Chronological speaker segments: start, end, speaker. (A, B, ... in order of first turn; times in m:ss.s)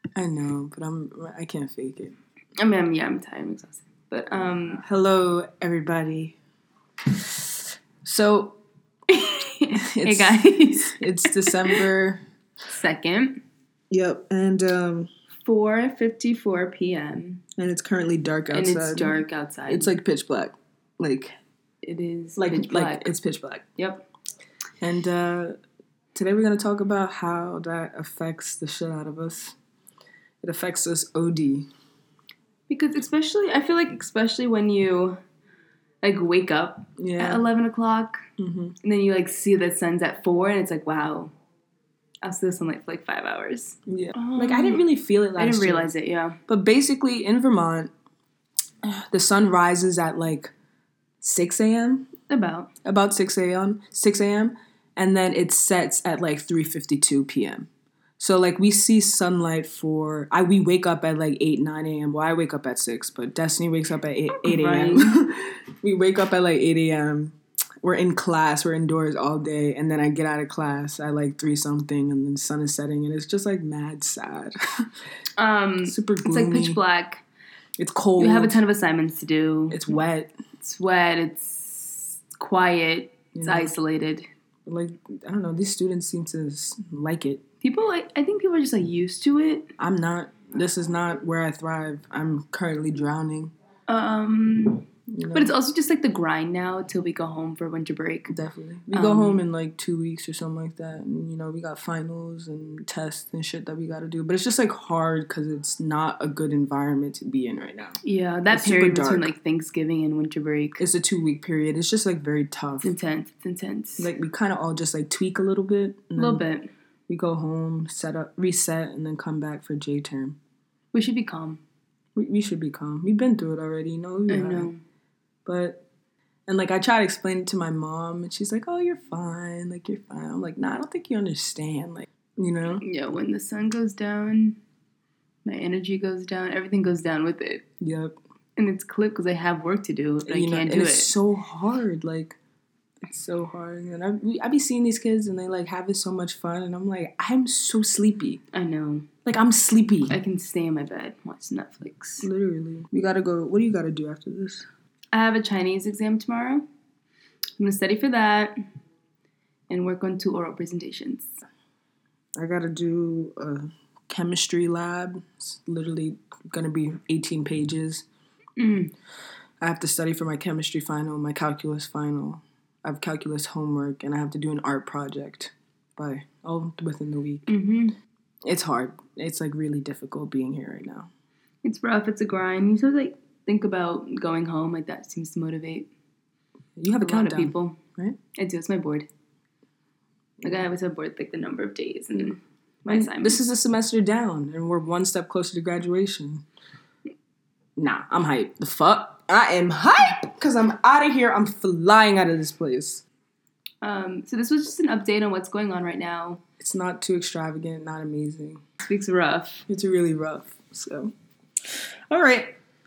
0:00.2-0:02.2 A
0:02.6-0:04.8 B
0:04.8-0:06.4 A
0:08.0-0:08.6 A
0:09.1-0:11.8 B
0:09.8-0:12.2 A
0:12.7-0:13.4 B
0:13.9-0:15.1 A
0:15.4-0:17.4 B
0:17.6-0:19.2 A
0:18.5-0:19.9 B
0:19.7-0:21.3 A
0:21.8-0:23.1 B
0:22.4-0:23.7 A
0:23.8-0:24.0 B
0:24.8-0:25.6 A
0:26.2-0:29.6 A
0:30.4-0:31.7 A
0:32.7-0:35.2 B
0:36.0-0:38.2 B
0:37.0-0:37.4 A
0:38.4-0:38.8 A
0:38.8-0:41.3 B
0:42.2-0:46.4 B
0:43.9-0:45.9 A
0:46.5-0:47.9 A
0:48.8-0:50.5 A
0:51.2-0:52.1 A
0:52.3-0:52.7 B
0:52.8-1:14.8 A
1:04.4-1:05.2 B
1:15.4-1:17.2 B
1:15.8-1:16.8 A
1:17.8-1:18.6 A
1:18.2-1:19.9 B
1:19.7-1:20.3 A
1:20.6-1:24.3 B
1:23.3-1:23.7 A
1:24.7-1:27.4 A
1:27.6-1:29.7 B
1:29.8-1:33.5 A
1:33.9-1:38.3 B
1:35.1-1:35.5 A
1:38.3-1:48.0 A
1:38.9-1:39.4 B
1:48.0-1:50.8 B
1:48.5-1:49.3 A
1:50.8-1:52.9 A
1:52.8-1:54.1 B
1:54.0-1:56.4 A
1:56.2-1:56.7 B
1:57.1-2:00.4 A
2:00.9-2:01.6 B
2:02.2-2:04.7 A
2:04.3-2:04.8 B
2:05.5-2:05.8 A
2:06.5-2:12.8 A
2:12.8-2:14.6 B
2:15.4-2:17.6 B
2:17.8-2:18.2 A
2:18.6-2:21.1 B
2:20.2-2:22.4 A
2:23.0-2:28.4 A
2:28.5-2:29.1 B
2:29.2-2:30.2 A
2:30.1-2:32.3 B
2:32.2-2:34.7 A
2:35.1-2:36.6 B
2:37.6-2:38.6 B
2:39.7-2:41.3 B
2:42.4-2:48.1 A
2:48.6-2:48.9 B
2:49.6-2:57.5 A
2:57.5-2:58.0 B
2:58.4-3:01.1 A
3:01.6-3:05.9 B
3:06.8-3:08.2 A
3:07.0-3:07.8 B
3:08.3-3:09.1 B
3:10.4-3:13.4 B
3:12.9-3:16.4 A
3:17.8-3:23.0 A
3:23.8-3:26.4 B
3:26.6-3:28.6 A
3:28.8-3:29.6 B
3:29.7-3:31.1 A
3:31.6-3:32.6 A